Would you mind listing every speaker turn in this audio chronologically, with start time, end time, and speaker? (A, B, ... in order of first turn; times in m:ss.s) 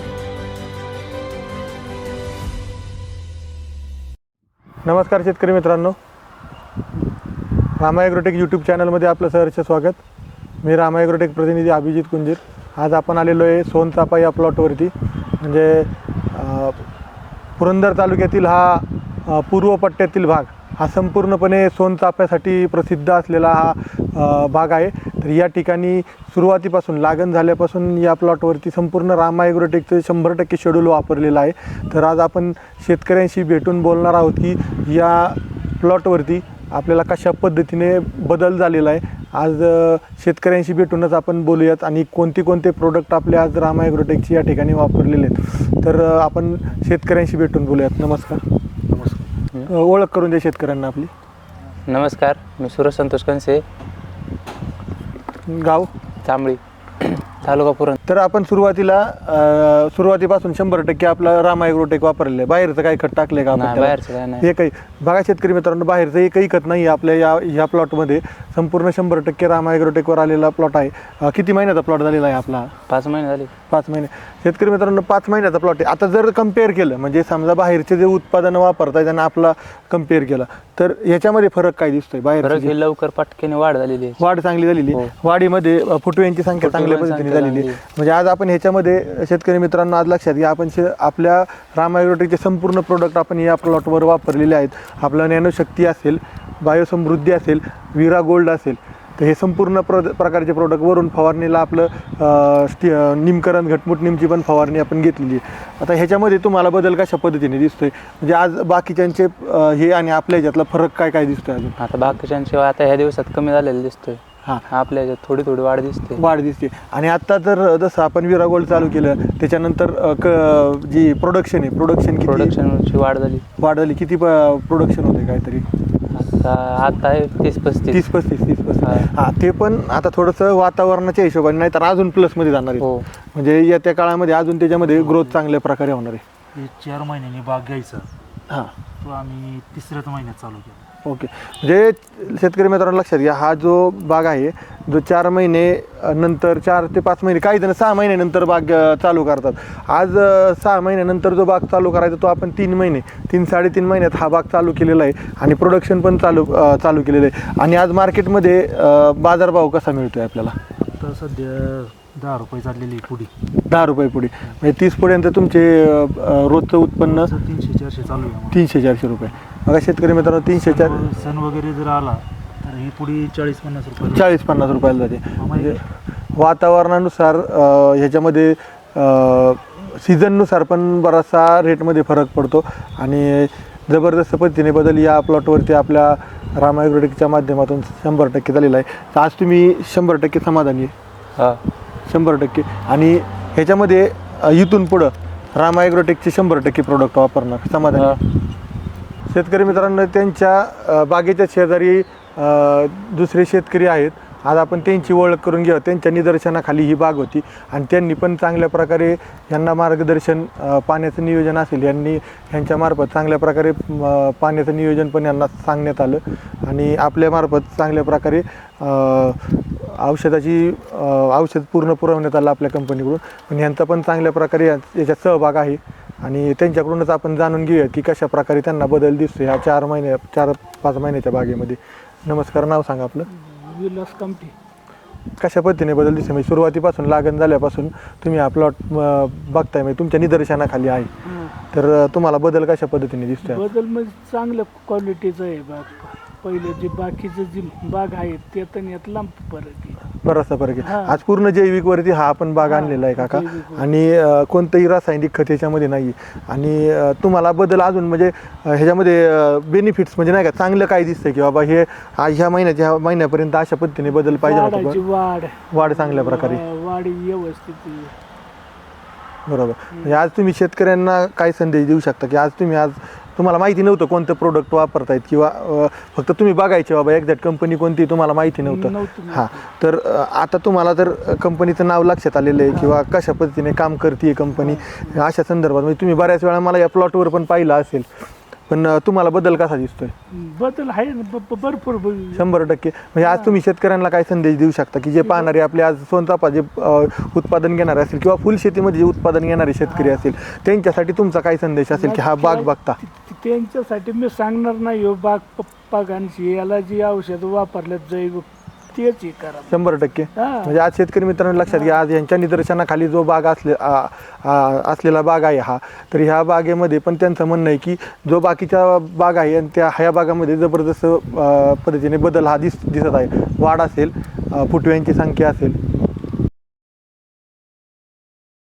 0:04.8-0:06.0 A
0:07.8-0:10.0 A
0:10.6-0:16.8 A
0:17.6-0:48.4 A
0:48.9-0:49.2 B
0:49.7-0:51.1 A
0:51.9-0:53.6 C
0:55.5-0:55.9 A
0:56.2-0:58.0 C
0:58.1-1:12.7 A
1:03.5-1:04.5 C
1:12.9-1:13.5 C
1:13.7-1:22.7 A
1:22.4-1:24.2 C
1:24.2-1:51.8 A
1:26.6-1:27.8 C
1:51.8-1:56.2 C
1:56.2-2:02.5 A
2:02.2-2:03.4 C
2:03.6-2:05.6 A
2:06.1-2:08.1 C
2:07.9-2:16.2 A
2:08.8-2:09.1 C
2:12.8-2:13.0 C
2:14.8-2:15.4 B
2:16.5-2:18.1 B
2:19.0-2:20.9 B
2:21.0-2:40.6 A
2:40.8-2:43.3 B
2:43.7-2:47.3 A
2:47.0-2:48.6 B
2:48.5-2:51.0 A
2:50.5-2:54.2 B
2:54.0-3:10.9 A
2:55.4-2:55.8 B
3:12.1-3:18.2 A
3:19.3-3:53.3 A
3:53.4-3:54.5 D
3:55.4-4:01.1 A
4:01.3-4:01.6 D
4:01.7-4:03.7 A
4:03.4-4:10.1 D
4:10.2-4:25.0 A
4:10.8-4:11.2 D
4:12.6-4:13.8 D
4:24.2-4:28.1 D
4:25.7-4:26.6 A
4:29.5-4:48.1 A
4:38.6-4:39.6 D
4:44.6-4:45.1 D
4:48.7-4:50.1 A
4:50.3-4:52.4 D
4:52.3-5:03.0 A
4:53.2-4:53.5 D
4:59.9-5:00.2 D
5:01.9-5:09.7 D
5:09.7-5:25.8 A
5:10.4-5:10.7 D
5:11.7-5:12.0 D